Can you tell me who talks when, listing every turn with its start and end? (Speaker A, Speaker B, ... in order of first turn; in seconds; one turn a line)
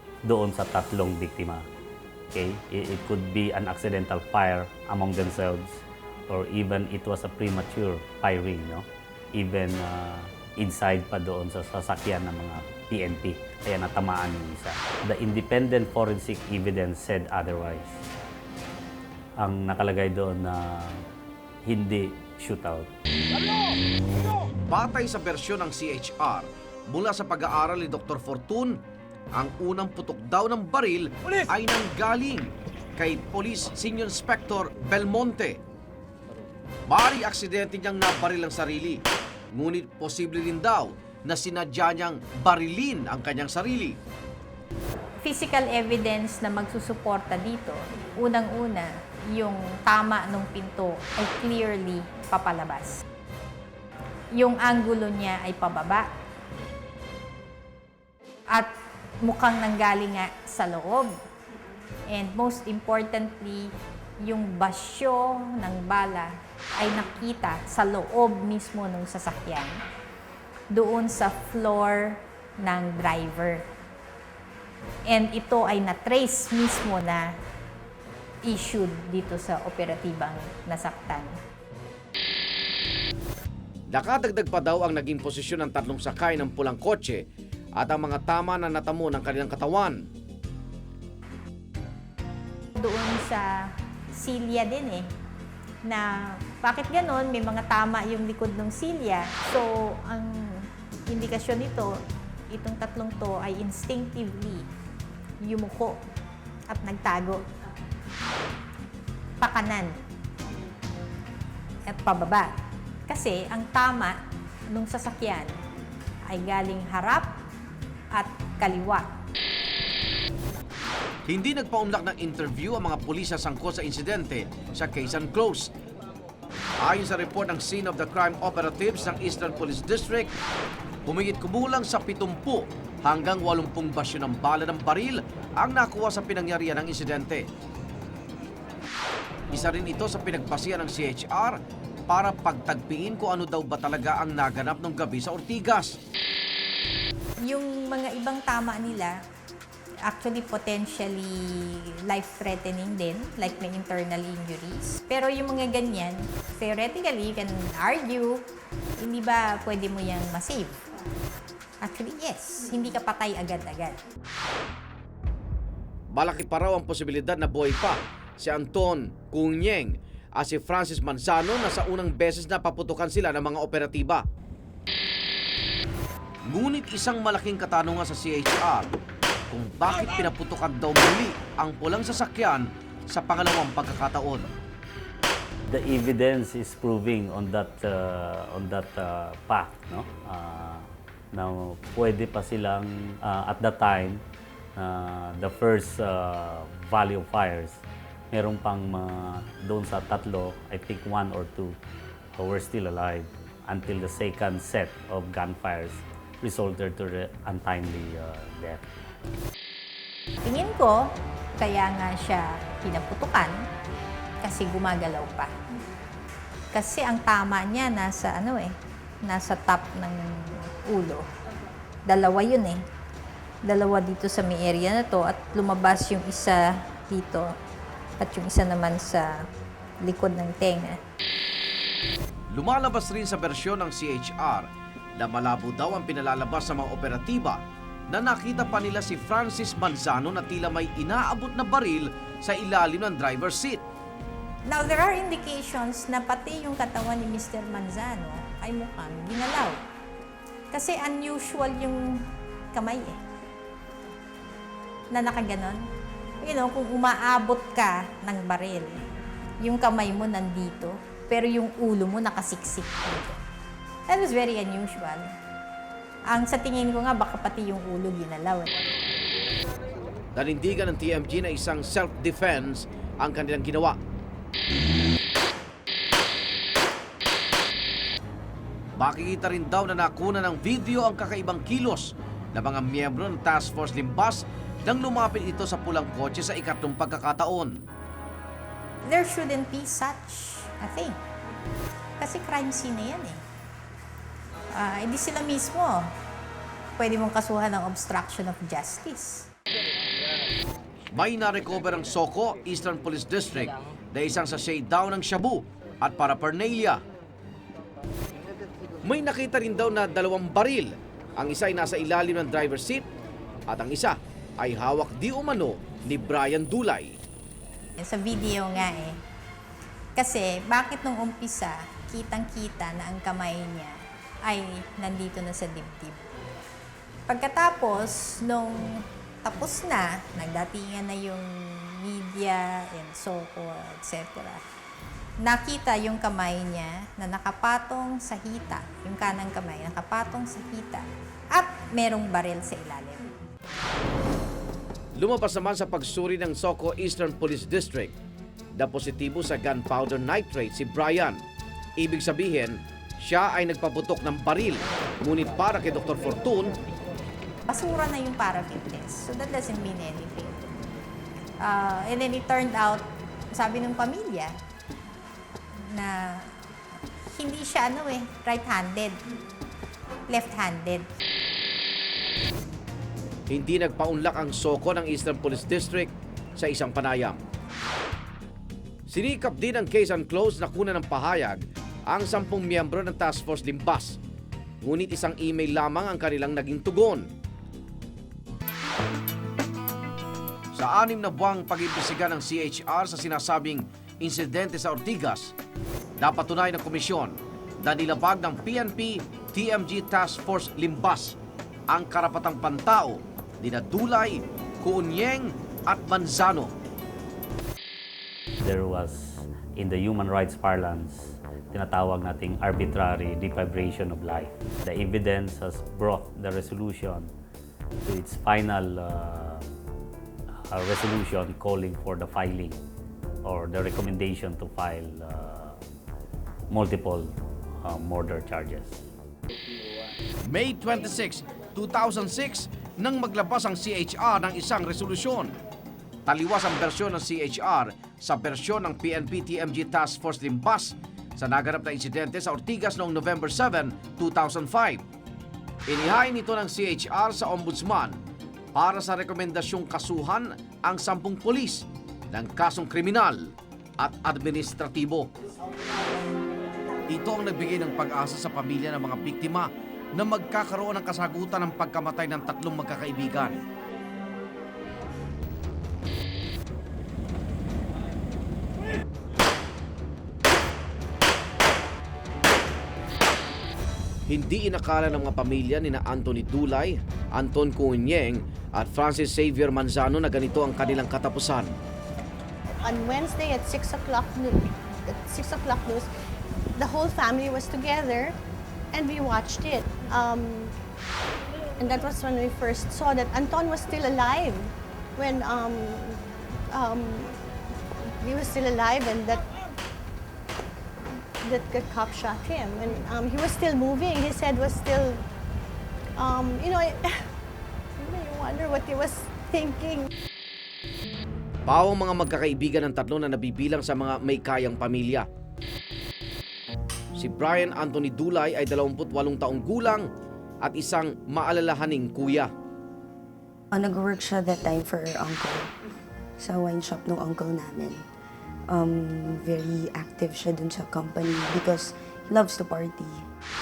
Speaker A: 0.2-1.6
Speaker A: 2.3-18.0
Speaker A: 19.4-21.0
Speaker A: 21.6-22.9
Speaker B: 24.7-28.8
Speaker B: 29.3-35.6
Speaker B: 36.9-39.0
Speaker B: 39.5-44.0
Speaker C: 45.2-53.0
Speaker C: 54.3-56.1
Speaker C: 59.2-61.1
Speaker C: 62.1-69.8
Speaker C: 70.7-73.7
Speaker C: 75.1-77.3
Speaker C: 78.5-81.4
Speaker B: 83.9-87.2
Speaker B: 87.8-90.1
Speaker C: 92.7-95.1
Speaker C: 95.8-102.0
Speaker C: 102.5-104.7
Speaker C: 105.4-106.0
Speaker C: 106.7-107.4
Speaker C: 109.4-110.0
Speaker C: 111.9-112.5
Speaker C: 113.1-114.2
Speaker C: 114.7-115.5
Speaker C: 116.3-117.3
Speaker C: 118.1-119.1
Speaker B: 121.3-125.7
Speaker B: 126.8-130.3
Speaker B: 131.1-137.5
Speaker B: 139.5-146.0
Speaker C: 147.4-149.2
Speaker C: 150.1-158.4
Speaker C: 159.0-160.8
Speaker C: 161.8-164.0
Speaker B: 166.1-174.2
Speaker B: 176.5-178.9
Speaker B: 179.5-184.5
Speaker A: 185.7-194.2
Speaker A: 194.8-201.8
Speaker A: 202.3-209.1
Speaker C: 210.4-213.6
Speaker C: 214.4-215.5
Speaker C: 216.7-221.3
Speaker C: 222.1-222.8
Speaker C: 223.6-227.6
Speaker C: 228.2-229.5
Speaker C: 230.0-231.0
Speaker B: 232.5-243.8
Speaker C: 244.7-249.8
Speaker C: 250.7-253.2
Speaker C: 255.1-255.8
Speaker C: 256.4-259.0
Speaker C: 259.6-263.4
Speaker C: 264.1-265.3
Speaker C: 266.3-268.9
Speaker B: 270.3-274.0
Speaker B: 279.0-287.8
Speaker C: 289.0-291.2
Speaker C: 292.2-293.4
Speaker C: 294.7-296.1
Speaker C: 297.0-299.5
Speaker B: 301.1-307.0
Speaker B: 309.0-313.1
Speaker B: 313.7-317.2
Speaker C: 318.0-319.2
Speaker C: 320.1-326.3
Speaker C: 327.3-334.6
Speaker C: 335.4-343.3
Speaker B: 345.1-348.1
Speaker B: 348.7-351.4
Speaker B: 352.0-356.8
Speaker C: 357.6-360.6
Speaker C: 361.6-364.5
Speaker C: 365.9-366.5
Speaker C: 367.3-369.2
Speaker C: 370.3-371.1
Speaker B: 373.5-377.4
Speaker B: 379.1-384.2
Speaker B: 384.8-387.3
Speaker B: 390.7-395.5
Speaker B: 396.2-401.4
Speaker B: 401.9-406.7
Speaker A: 408.6-417.3
Speaker A: 418.0-419.7
Speaker A: 420.7-422.8
Speaker A: 423.4-425.8
Speaker A: 426.7-429.0
Speaker B: 430.4-435.5
Speaker B: 436.2-445.0
Speaker B: 445.9-448.2
Speaker B: 448.7-455.3
Speaker B: 457.1-463.6
Speaker B: 474.3-481.8
Speaker D: 482.8-486.1
Speaker D: 486.8-488.3
Speaker D: 488.9-490.7
Speaker D: 491.8-497.4
Speaker D: 498.2-499.5
Speaker D: 501.4-505.2
Speaker D: 506.2-507.3
Speaker D: 508.0-510.1
Speaker B: 511.6-515.3
Speaker B: 517.1-520.1
Speaker B: 520.6-522.5
Speaker E: 523.7-525.7
Speaker E: 526.4-528.0
Speaker E: 528.7-533.2